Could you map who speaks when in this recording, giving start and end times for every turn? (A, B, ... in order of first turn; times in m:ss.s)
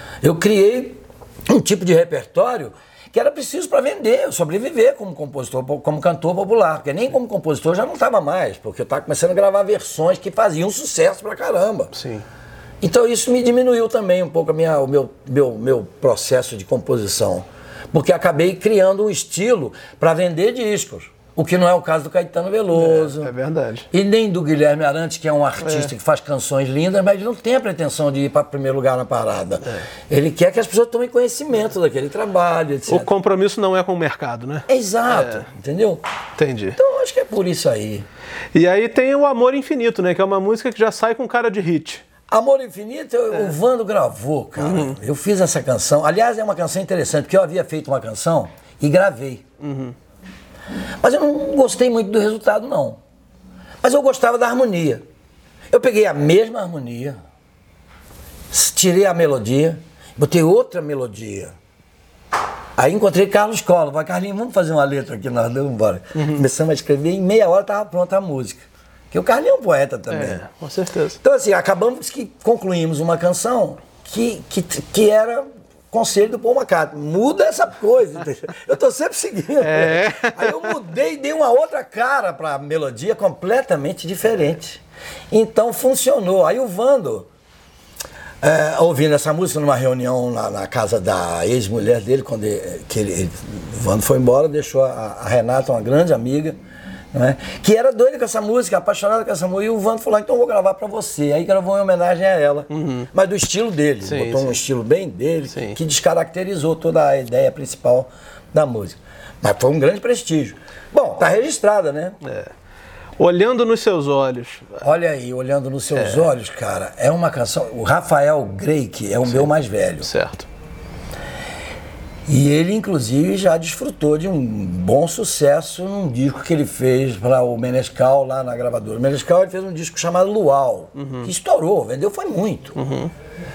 0:00.2-0:11.9 A
0:11.9-0:12.2 B
0:12.8-0:23.3 A
0:22.7-0:23.9 B
0:23.9-0:33.1 A
0:25.6-0:25.9 B
0:32.9-0:35.5 B
0:34.7-0:36.0 A
0:36.4-0:36.8 B
0:36.8-0:38.0 A
0:38.5-0:42.0 B
0:42.3-0:49.4 A
0:44.6-0:44.9 B
0:49.6-0:49.9 B
0:51.0-0:53.0 A
0:53.8-0:55.0 A
0:55.7-0:57.2 A
0:58.5-1:01.5 A
1:02.8-1:10.4 A
1:10.1-1:11.2 B
1:11.2-1:27.3 A
1:19.6-1:20.7 B
1:28.4-1:36.6 A
1:37.1-1:52.2 A
1:42.7-1:43.1 B
1:44.0-1:44.6 B
1:52.2-1:52.5 B
1:53.2-1:54.8 B
1:54.8-2:00.1 A
1:55.9-1:56.2 B
2:00.0-2:00.5 B
2:02.3-2:12.8 A
2:11.0-2:11.3 B
2:12.8-2:13.1 B